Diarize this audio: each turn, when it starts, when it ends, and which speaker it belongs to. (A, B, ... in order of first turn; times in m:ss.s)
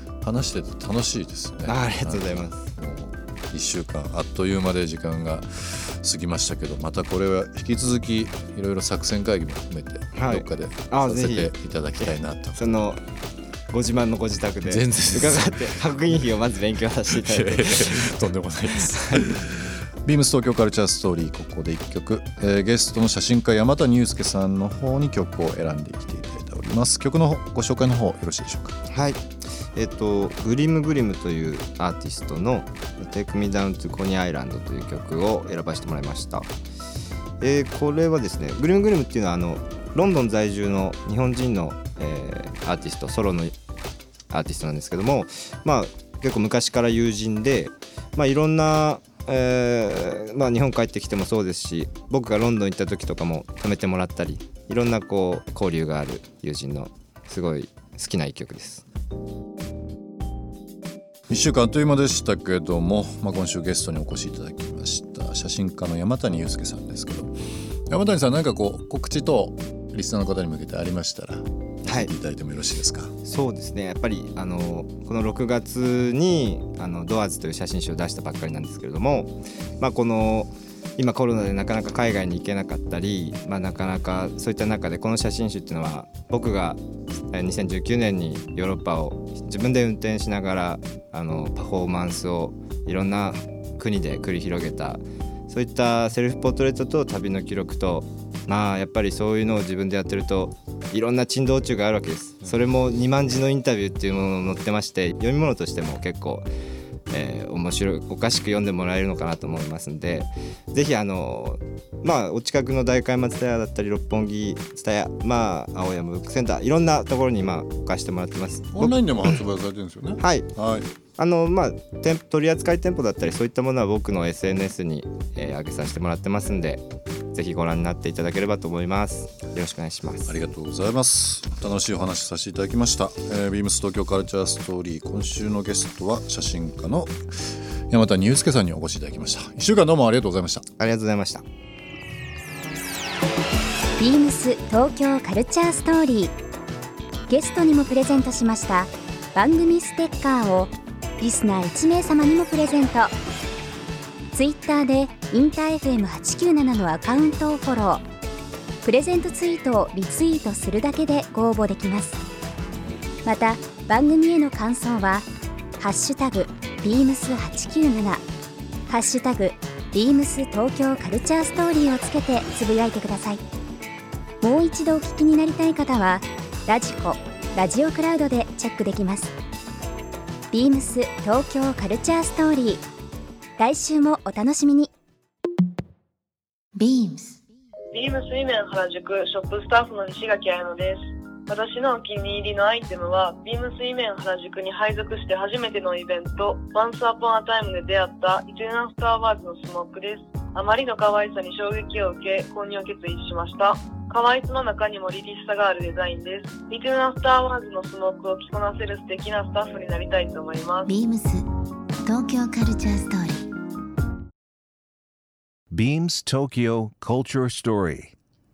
0:00.2-0:12.6 A
0:01.6-0:02.7 B
0:10.1-0:13.0 B
0:13.7-0:19.2 B
0:14.6-0:15.8 A
0:17.1-0:28.7 A
0:28.9-0:36.5 B
0:37.4-0:43.5 B
0:44.3-0:58.8 B
1:01.3-1:07.3 A
1:07.9-1:13.1 A
1:11.8-1:12.1 B
1:13.2-1:26.8 B
1:27.3-1:46.5 B
1:47.1-1:59.4 B
1:58.7-2:00.9 A
2:00.2-2:00.5 B
2:01.1-2:10.3 B
2:10.2-2:20.6 A
2:20.8-2:21.4 B
2:24.0-2:26.3 C
2:27.3-2:33.1 C
2:34.3-2:38.0 C
2:38.8-2:42.2 C
2:43.2-2:45.3 C
2:45.8-2:48.2 C
2:48.9-2:53.4 C
2:54.4-2:59.3 C
3:00.5-3:02.8 C
3:03.6-3:04.9 C
3:06.8-3:07.4 D
3:07.9-3:30.9 E
3:30.9-3:31.4 D
3:32.0-3:33.5 D
3:35.7-3:38.1 F